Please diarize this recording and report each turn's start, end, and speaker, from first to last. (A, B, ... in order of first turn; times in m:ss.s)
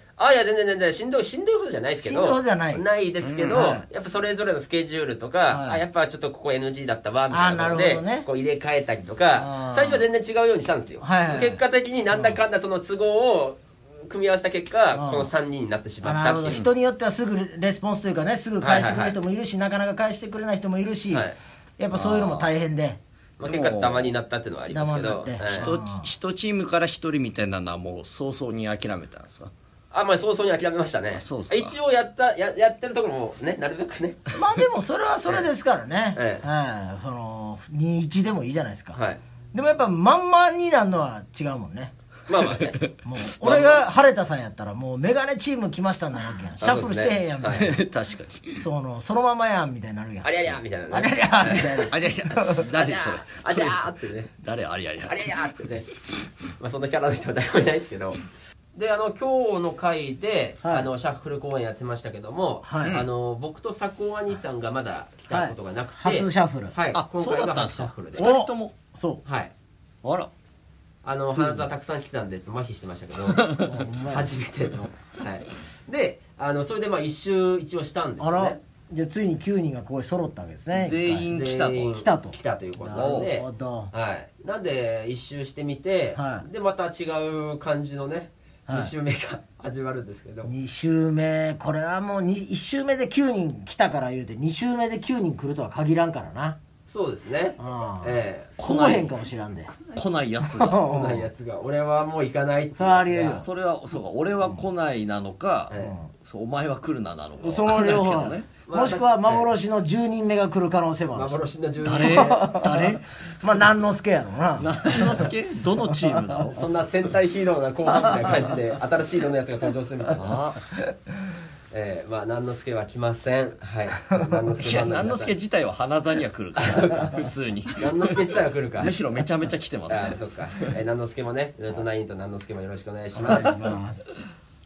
0:00.2-0:16.6 A
0:02.0-0:02.8 B
0:03.2-0:03.5 C
0:03.5-0:03.9 B
0:05.5-0:05.8 B
0:07.3-0:08.3 B
0:09.4-0:10.0 B
0:11.0-0:11.6 B
0:12.1-0:12.4 B
0:15.0-0:15.3 B
0:16.0-0:21.3 B
0:18.6-0:19.2 A
0:21.1-0:21.4 A
0:21.8-0:23.0 B
0:21.9-0:22.5 C
0:23.4-0:24.1 C
0:23.4-0:25.7 A
0:24.7-0:26.1 B
0:25.5-0:29.5 C
0:29.9-0:34.2 A
0:31.1-0:31.8 C
0:34.3-0:39.0 B
0:36.2-0:36.5 A
0:38.9-0:39.2 A
0:39.5-0:42.0 B
0:42.3-0:42.8 A
0:43.0-0:47.8 B
0:43.4-0:43.8 A
0:46.6-0:47.7 A
0:47.5-0:48.6 C
0:48.6-0:52.7 B
0:50.2-0:51.9 A
0:51.9-0:53.8 C
0:52.6-0:54.3 A
0:54.4-0:55.5 C
0:55.1-0:55.9 A
0:56.6-0:58.2 A
0:58.8-1:08.3 A
1:00.6-1:00.9 B
1:02.6-1:03.0 B
1:05.3-1:06.8 B
1:06.9-1:08.7 C
1:08.2-1:09.2 B
1:09.2-1:09.5 A
1:10.0-1:10.3 C
1:11.0-1:13.5 A
1:11.3-1:11.7 B
1:13.3-1:13.7 C
1:13.6-1:14.3 B
1:14.1-1:18.6 A
1:18.2-1:21.3 B
1:20.7-1:21.9 C
1:21.3-1:30.5 A
1:21.9-1:23.9 B
1:23.0-1:23.3 C
1:26.2-1:26.5 B
1:28.7-1:28.9 B
1:30.4-1:36.6 B
1:36.9-1:38.5 A
1:37.6-1:39.7 B
1:38.6-1:39.1 C
1:39.9-1:40.8 C
1:40.4-1:41.3 B
1:40.8-1:43.4 A
1:42.7-1:43.5 B
1:43.2-1:48.5 C
1:45.7-1:46.0 A
1:45.8-1:46.1 B
1:47.4-1:51.4 B
1:48.7-1:49.5 A
1:51.1-1:52.6 A
1:51.8-1:53.1 C
1:52.0-1:55.3 B
1:54.6-1:56.7 C
1:55.9-1:56.4 B
1:56.5-2:00.4 A
1:57.9-1:58.8 B
2:00.2-2:00.6 C
2:01.7-2:05.3 A
2:04.1-2:04.4 B
2:04.6-2:08.2 C
2:06.6-2:08.9 A
2:08.8-2:10.7 C
2:09.9-2:13.7 A
2:13.2-2:14.0 B